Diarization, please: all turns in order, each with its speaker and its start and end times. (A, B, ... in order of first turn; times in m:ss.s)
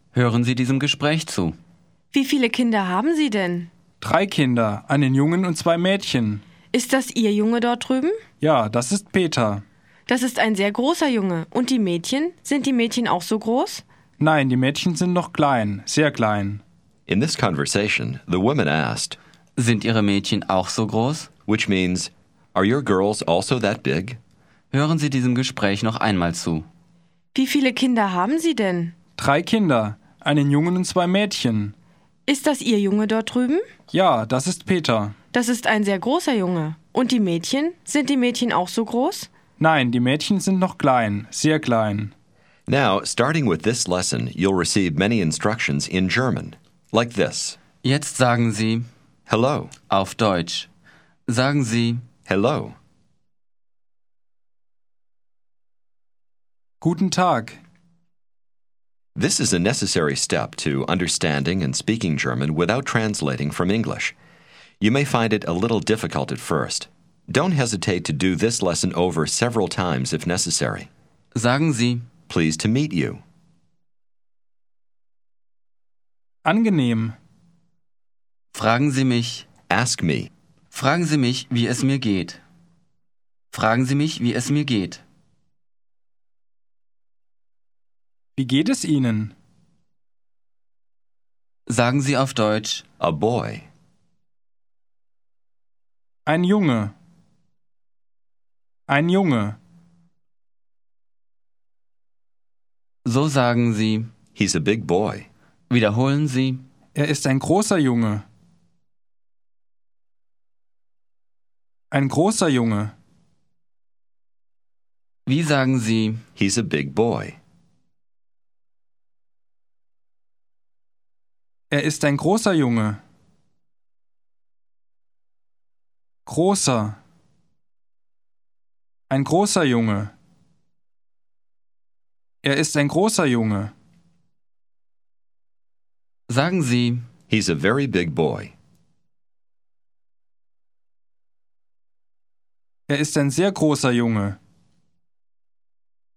0:00.1-0:01.6 A
0:02.1-0:03.7 B
0:04.0-0:06.4 C
0:06.7-0:08.2 B
0:08.4-0:09.6 C
0:10.1-0:13.8 B
0:14.2-0:16.6 C
0:17.1-0:19.2 D
0:19.6-0:21.3 A
0:21.5-0:24.2 D
0:24.7-0:26.7 A
0:27.3-0:29.0 B
0:29.2-0:31.8 C
0:32.3-0:33.6 B
0:33.9-0:35.2 C
0:35.3-0:39.3 B
0:39.6-0:42.1 C
0:42.7-0:47.6 D
0:47.8-0:48.9 A
0:49.3-0:49.7 D
0:49.9-0:50.7 A
0:51.3-0:52.0 A
0:52.3-0:52.8 D
0:56.8-0:57.6 C
0:59.2-1:04.2 D
1:04.8-1:10.9 D
1:11.3-1:12.1 A
1:12.3-1:13.2 D
1:16.4-1:17.2 C
1:18.5-1:19.5 A
1:19.7-1:20.3 D
1:20.7-1:22.4 A
1:23.5-1:25.0 A
1:28.4-1:29.3 C
1:31.7-1:32.8 A
1:33.0-1:33.7 D
1:36.3-1:36.9 C
1:38.9-1:39.6 C
1:43.0-1:44.1 A
1:44.4-1:45.3 D
1:45.7-1:46.6 A
1:47.0-1:48.2 C
1:51.9-1:52.9 C
1:55.3-1:56.2 A
1:56.4-1:57.4 D
2:01.7-2:03.0 C
2:06.3-2:07.0 C
2:09.1-2:10.1 C
2:12.4-2:13.7 C
2:16.3-2:17.1 A
2:17.3-2:18.5 D
2:22.9-2:24.4 C